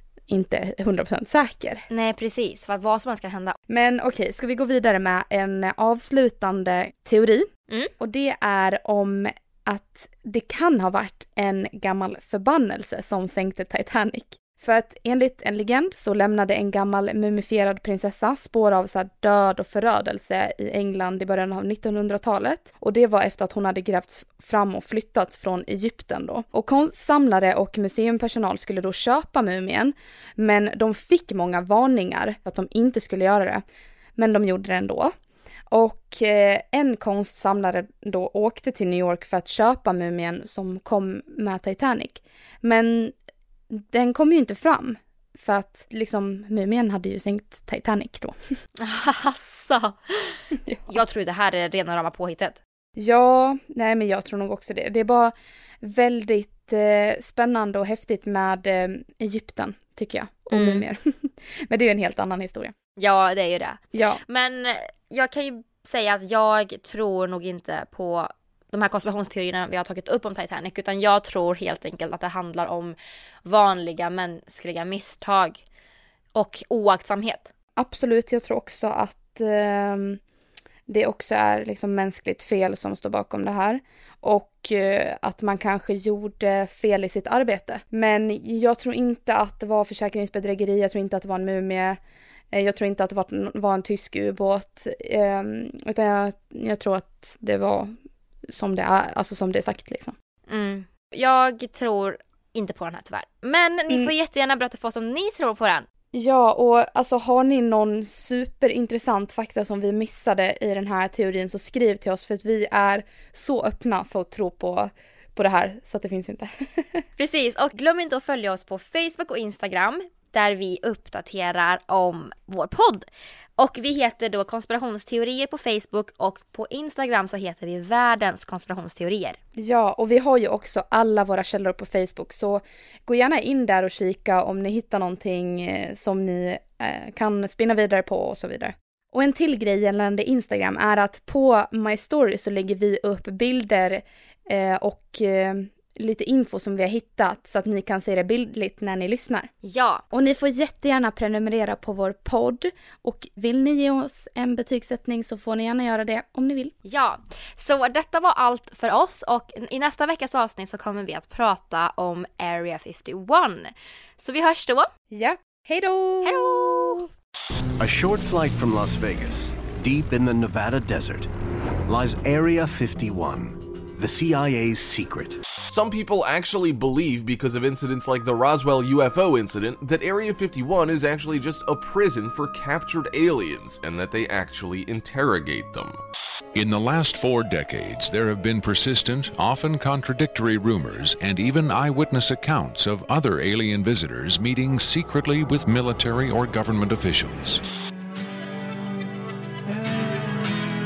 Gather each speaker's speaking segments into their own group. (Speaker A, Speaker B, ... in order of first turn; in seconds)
Speaker A: 0.3-1.9, 3.7-7.5, 8.0-33.6, 34.2-35.1, 35.7-43.1, 43.7-48.4, 53.0-62.8, 63.9-64.2, 77.8-80.2, 80.9-92.0, 92.5-98.0, 98.5-100.2, 106.1-116.5, 129.6-149.5, 150.1-156.7, 165.1-167.0
Speaker B: 1.9-3.6, 48.8-52.6, 60.5-60.9, 63.0-75.6, 76.3-77.5, 100.5-105.9, 117.2-129.4, 149.6-150.0, 156.9-164.9, 166.2-167.1
Speaker C: 167.8-171.3, 171.9-175.6
Speaker D: 175.6-186.0
Speaker E: 186.5-197.6